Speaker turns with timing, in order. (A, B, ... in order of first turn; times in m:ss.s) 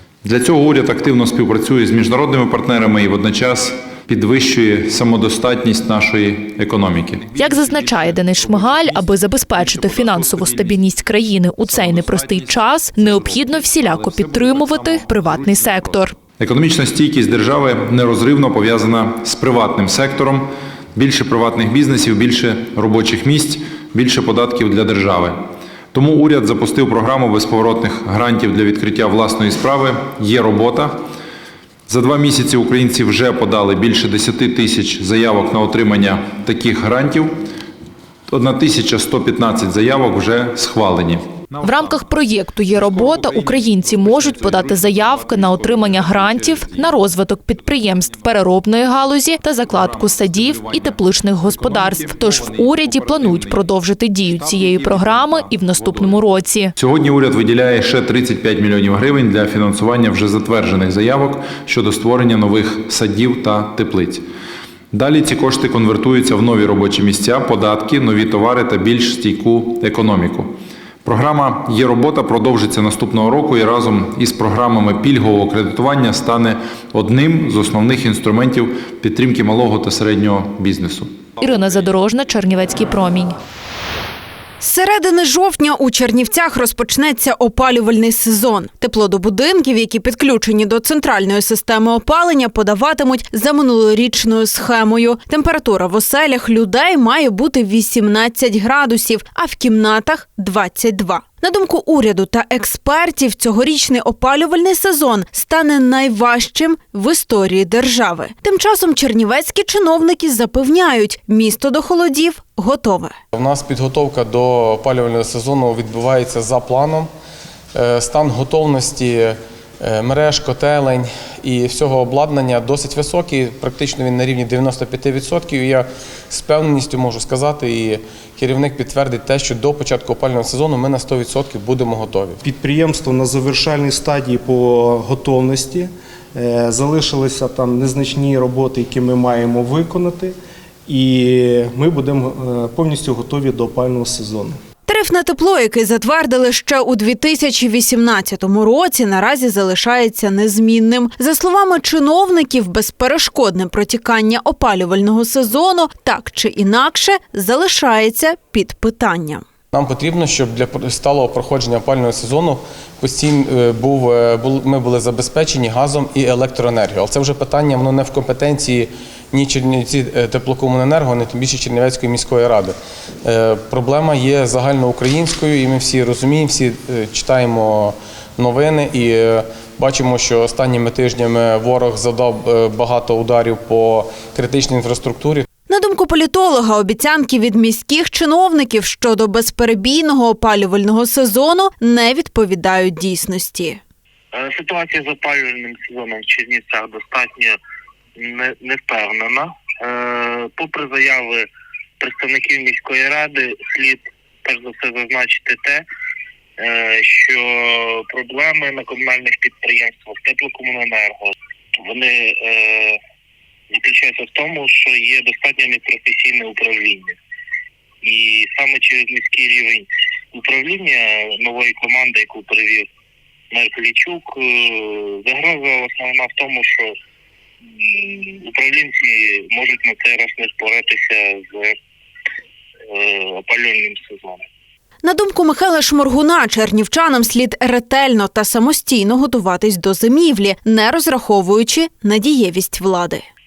0:00.2-0:07.8 A
0:07.3-0:16.2 B
0:08.4-0:09.0 A
0:09.6-0:10.7 A
0:11.7-0:31.0 A
0:31.9-0:37.4 A
0:38.3-0:42.0 A
0:41.6-0:56.7 B
0:42.8-0:46.9 A
0:49.7-0:53.6 A
0:54.3-0:56.2 A
0:56.8-1:04.2 A
1:04.9-1:10.5 A
1:11.0-1:21.2 A
1:21.4-1:23.4 B
1:24.6-1:53.2 C
1:53.3-1:57.1 D
1:57.7-2:12.4 D
2:12.4-2:20.4 E
2:20.9-2:24.6 E
2:24.9-2:39.4 C
2:39.7-3:05.4 D
3:05.7-3:13.8 C
3:14.3-3:17.6 F
3:18.2-3:21.5 F
3:22.0-3:25.8 F
3:26.6-3:33.0 F
3:33.7-3:37.1 F
3:38.0-3:42.9 F
3:43.5-3:47.0 F
3:47.7-3:51.8 F
3:52.9-3:54.4 F
3:55.0-4:03.2 C